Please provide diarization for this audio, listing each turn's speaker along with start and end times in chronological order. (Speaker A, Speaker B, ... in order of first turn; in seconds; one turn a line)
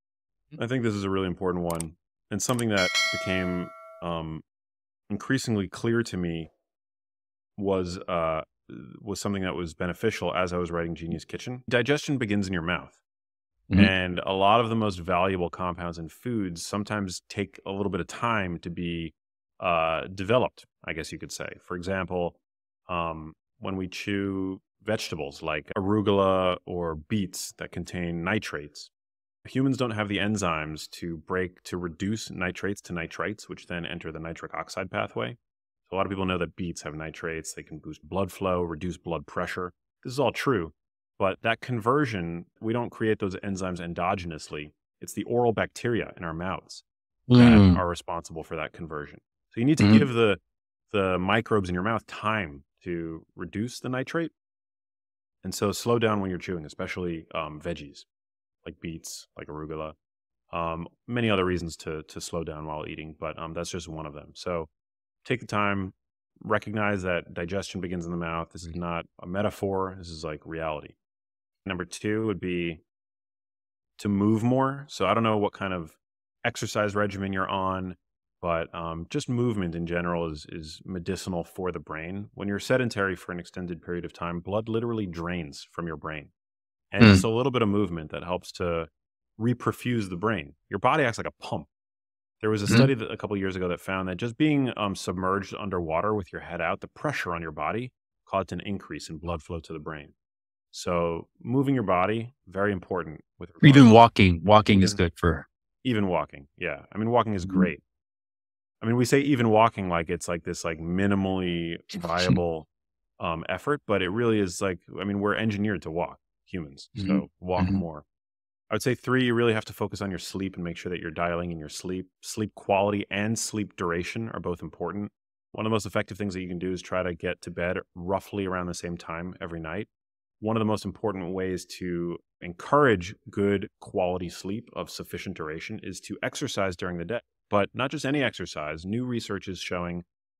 Speaker A: 0.6-4.4
Speaker A: 5.1-6.5
Speaker A: 7.6-13.0
Speaker A: 13.7-28.9
Speaker A: 29.4-46.8
Speaker B: 47.3-47.8
Speaker A: 47.3-50.4
Speaker B: 49.8-50.0
Speaker A: 50.9-54.3
Speaker A: 55.4-58.0
Speaker A: 58.6-59.9
Speaker A: 60.5-64.7
Speaker A: 65.2-71.0
Speaker A: 71.7-72.8
Speaker A: 74.0-86.3
Speaker A: 86.9-91.7
Speaker B: 87.0-87.2
Speaker A: 92.4-100.1
Speaker A: 100.7-103.9
Speaker B: 103.6-105.5
Speaker A: 104.6-105.0
Speaker A: 105.8-107.8
Speaker B: 107.4-107.7
Speaker A: 108.8-118.0
Speaker B: 112.0-112.4
Speaker B: 117.0-117.8
Speaker A: 118.7-129.9
Speaker A: 130.4-140.0